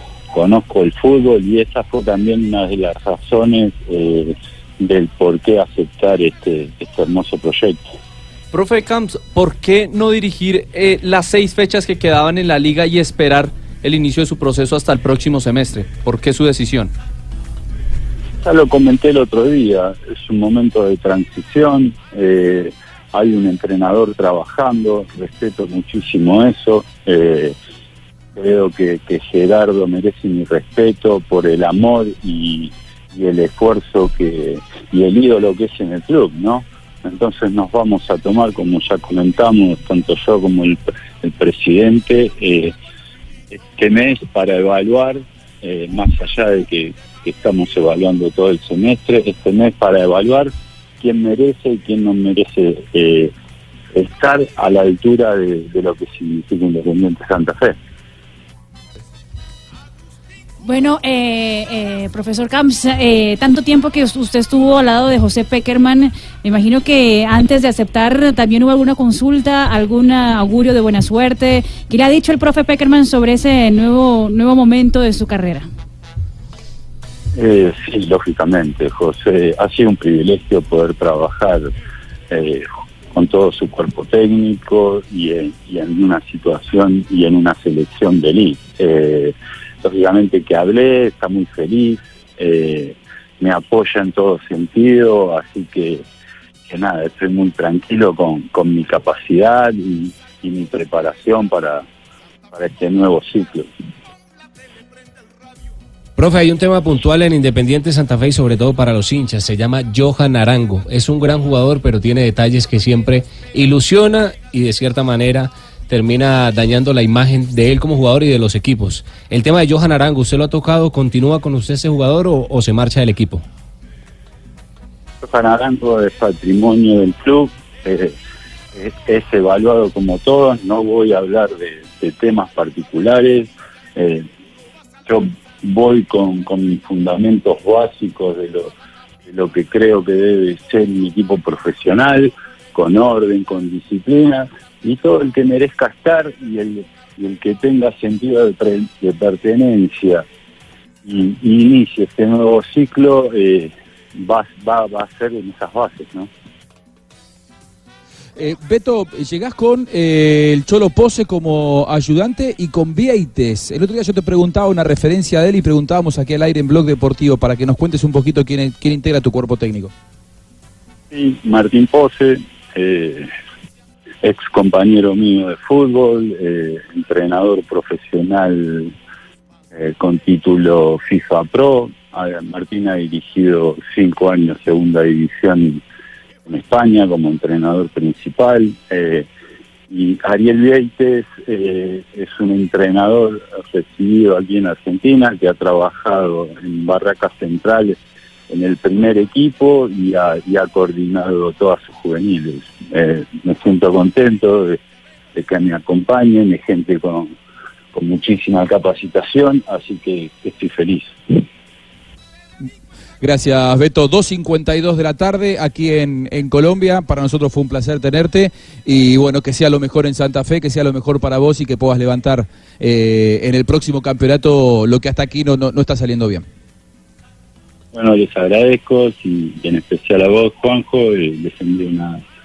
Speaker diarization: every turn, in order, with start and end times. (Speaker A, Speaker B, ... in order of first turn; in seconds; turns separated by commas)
Speaker A: 0.3-7.9, Speaker B: 8.5-16.9, Speaker A: 18.4-27.6, Speaker A: 28.4-42.7, Speaker A: 43.5-53.3, Speaker A: 53.9-57.8, Speaker C: 60.6-75.7, Speaker A: 77.3-81.7, Speaker A: 82.3-96.0, Speaker A: 96.7-101.8, Speaker A: 102.5-103.7, Speaker D: 106.2-123.4, Speaker A: 125.2-128.2, Speaker A: 128.8-134.3, Speaker A: 135.1-138.7, Speaker A: 139.3-150.2, Speaker A: 151.1-156.3, Speaker E: 158.4-169.9, Speaker A: 171.1-173.3, Speaker A: 174.2-178.9, Speaker A: 179.7-185.8, Speaker A: 186.5-189.3, Speaker A: 189.9-198.0, Speaker A: 198.5-204.8, Speaker A: 205.3-207.3, Speaker A: 207.9-211.4, Speaker E: 213.2-226.4, Speaker A: 227.9-232.2